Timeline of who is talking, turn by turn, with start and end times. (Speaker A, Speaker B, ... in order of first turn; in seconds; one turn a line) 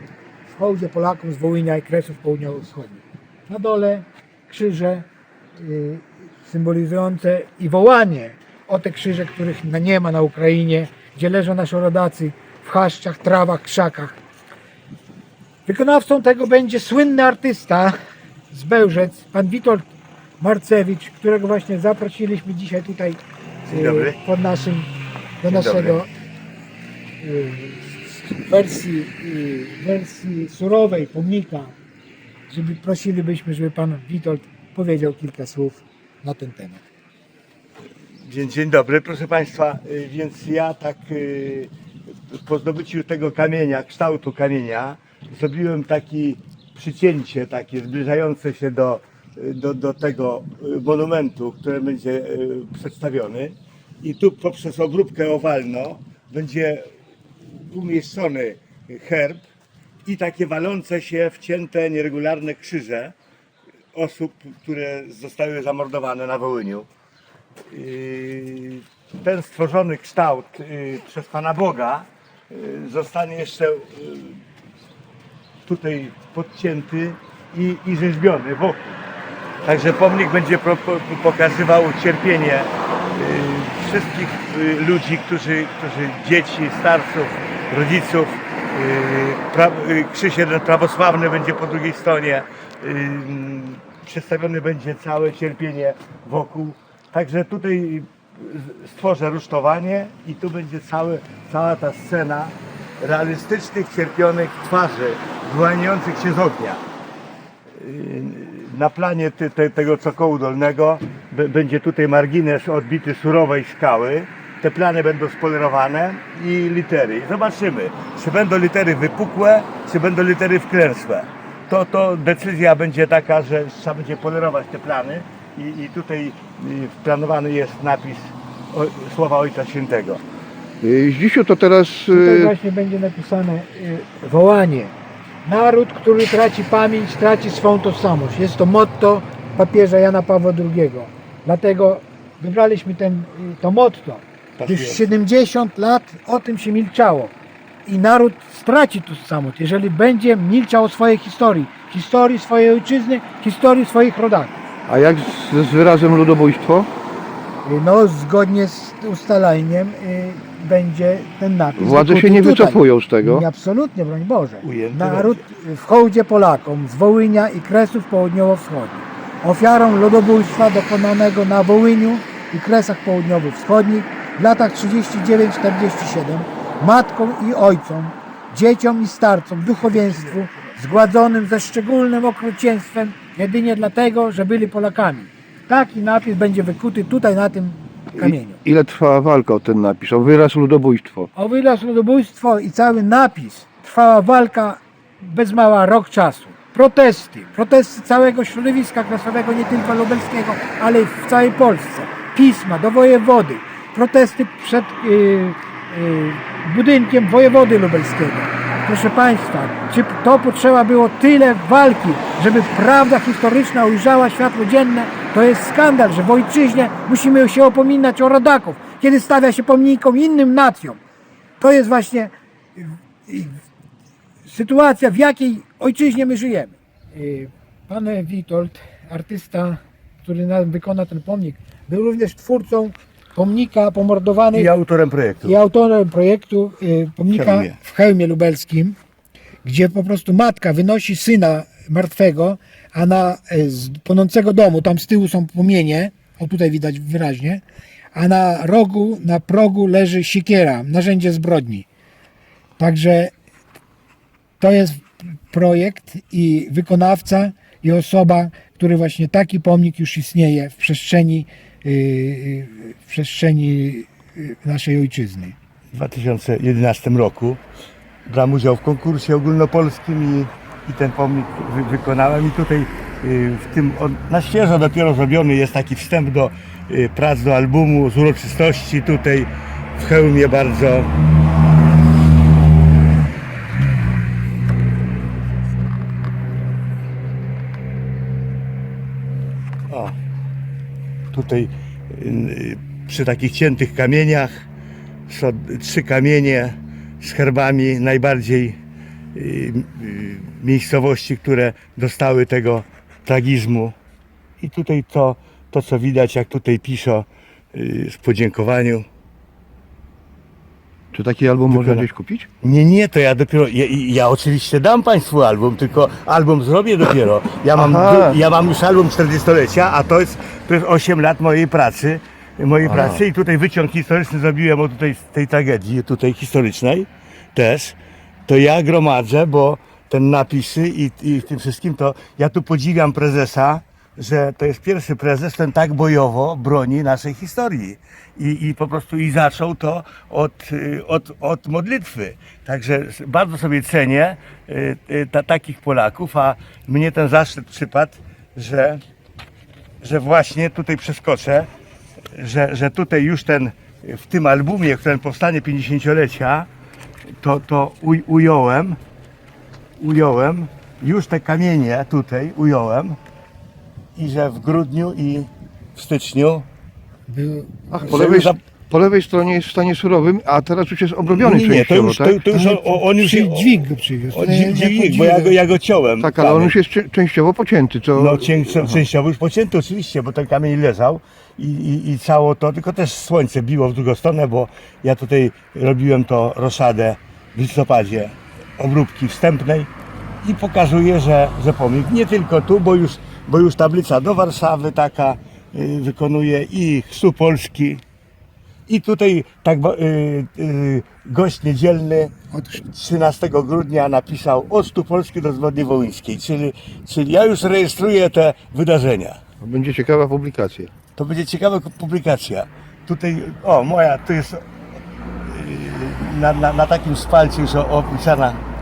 Speaker A: 0.5-14.2
Speaker A: 15.7-18.0
Speaker A: 18.5-19.9
Speaker A: 20.4-26.1
Speaker B: 23.7-24.2
Speaker B: 25.5-26.0
Speaker A: 27.2-31.8
Speaker A: 32.5-36.9
Speaker B: 38.2-41.7
Speaker B: 42.3-56.9
Speaker B: 57.7-59.4
Speaker B: 60.1-63.1
Speaker B: 63.9-66.9
Speaker B: 67.7-74.4
Speaker B: 75.6-79.0
Speaker B: 79.6-106.8
Speaker B: 107.7-130.2
Speaker C: 130.8-132.5
Speaker A: 132.1-147.3
Speaker B: 144.6-145.1
Speaker A: 147.8-154.6
Speaker C: 154.9-156.9
Speaker A: 157.7-188.6
Speaker C: 161.8-163.4
Speaker B: 164.6-165.4
Speaker C: 188.2-191.3
Speaker A: 191.3-221.0
Speaker A: 221.6-223.6
Speaker A: 224.5-234.7
Speaker B: 234.5-235.6
Speaker A: 235.4-239.0
Speaker B: 237.3-237.8
Speaker A: 239.6-247.6
Speaker A: 248.1-251.9
Speaker A: 252.8-253.3
Speaker A: 254.6-265.6
Speaker B: 265.9-267.6
Speaker B: 268.2-281.1
Speaker B: 289.9-290.1
Speaker B: 291.3-294.6
Speaker B: 295.3-298.8
Speaker B: 299.3-303.9
Speaker B: 304.6-309.1
Speaker C: 311.1-312.5
Speaker B: 311.7-312.1
Speaker B: 312.6-349.0
Speaker C: 317.8-318.4
Speaker C: 322.9-323.2
Speaker B: 350.0-351.7
Speaker B: 352.3-356.7
Speaker B: 357.4-359.0
Speaker B: 360.0-363.2
Speaker B: 364.2-366.7
Speaker A: 367.3-368.0
Speaker C: 367.9-372.4
Speaker B: 368.0-368.6
Speaker B: 371.3-376.8
Speaker A: 372.5-375.5
Speaker C: 376.2-379.0
Speaker B: 378.1-389.9
Speaker B: 390.4-398.0
Speaker B: 398.9-409.4
Speaker A: 402.5-402.8
Speaker C: 409.6-410.9
Speaker B: 411.2-414.6
Speaker B: 415.4-418.6